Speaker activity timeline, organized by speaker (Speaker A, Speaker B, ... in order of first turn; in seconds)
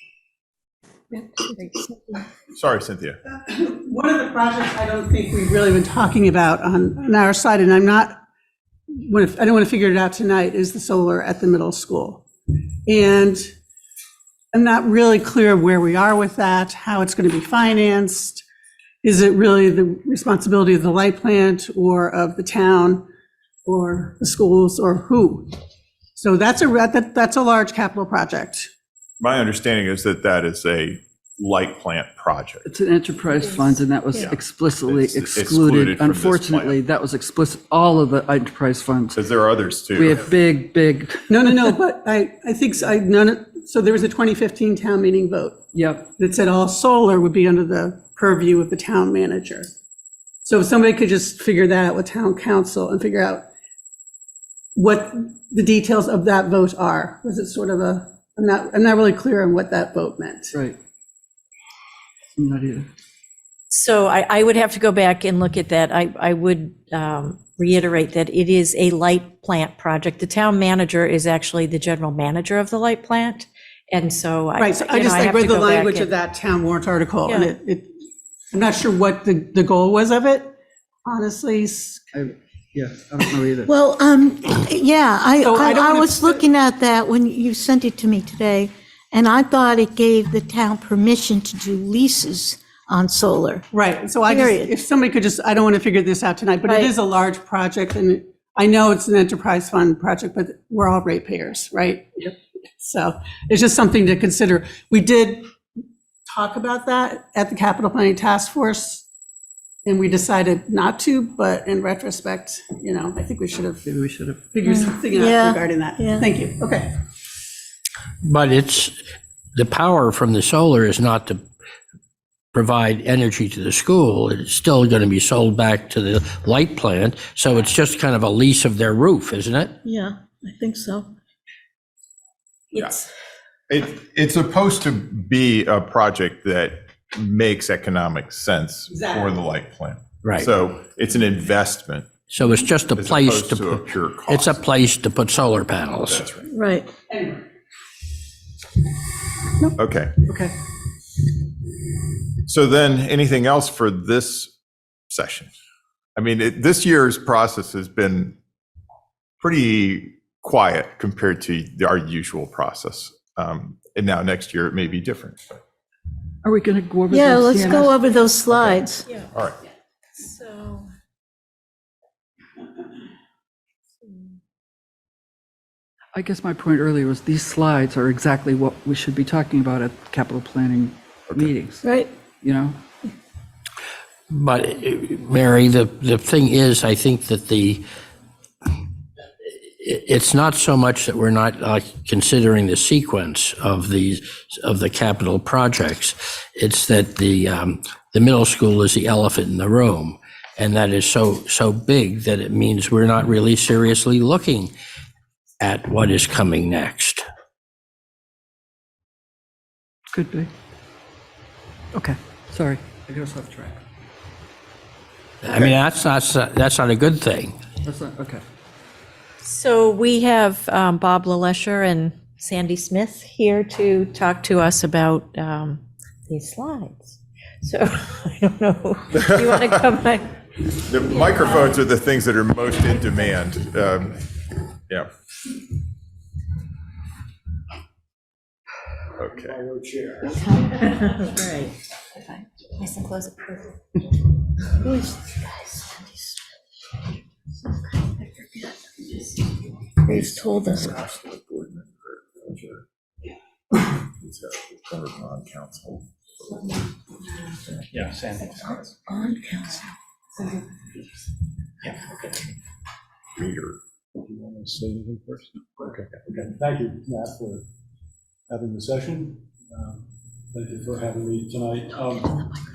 Speaker A: 1.5-1.8, 63.7-76.1, 77.2-77.5, 132.7-133.1, 170.1-170.9, 174.0-174.4, 219.4-230.3, 240.6-241.7, 242.8-243.6
Speaker B: 2.5-3.2, 29.2-32.6, 34.1-36.8, 39.1-40.3, 132.7-133.0, 133.7-142.1, 142.9-144.6, 146.1-146.5, 149.7-150.2, 152.4-154.5, 155.1-155.5, 156.2-158.4, 159.4-165.6, 168.5-168.8, 230.8-234.2, 239.2-239.6, 250.1-252.8, 253.8-256.8, 257.7-258.8, 263.4-263.8
Speaker C: 3.3-8.2, 8.9-13.5, 14.5-18.4, 19.0-23.1, 23.7-25.6, 26.2-28.7, 41.3-45.6, 46.1-49.8, 50.4-53.5, 54.8-60.5, 74.6-77.9, 78.5-82.0, 85.4-86.4, 93.7-105.5, 106.3-109.0, 109.8-113.8, 114.5-116.9, 138.9-139.4, 147.1-147.5
Speaker D: 32.6-39.2, 39.9-41.8, 45.7-46.1, 62.4-62.9, 82.1-83.7, 113.8-114.4, 150.3-150.5, 166.4-168.0, 176.2-181.8, 182.4-182.8, 210.1-210.5, 211.9-213.8, 217.8-218.4
Speaker E: 83.7-93.7, 94.3-94.7, 96.7-96.9, 114.7-116.3, 129.8-131.1, 146.5-146.9, 167.1-169.1, 181.8-182.1, 244.8-245.8, 250.0-251.0, 258.8-259.9
Speaker F: 118.2-119.0, 119.5-121.4, 122.5-129.7, 140.2-140.5, 142.3-146.3, 184.3-187.8, 189.8-204.7, 205.6-207.3, 215.4-217.6
Speaker G: 239.3-240.5, 257.9-258.4, 264.1-267.7, 268.5-272.4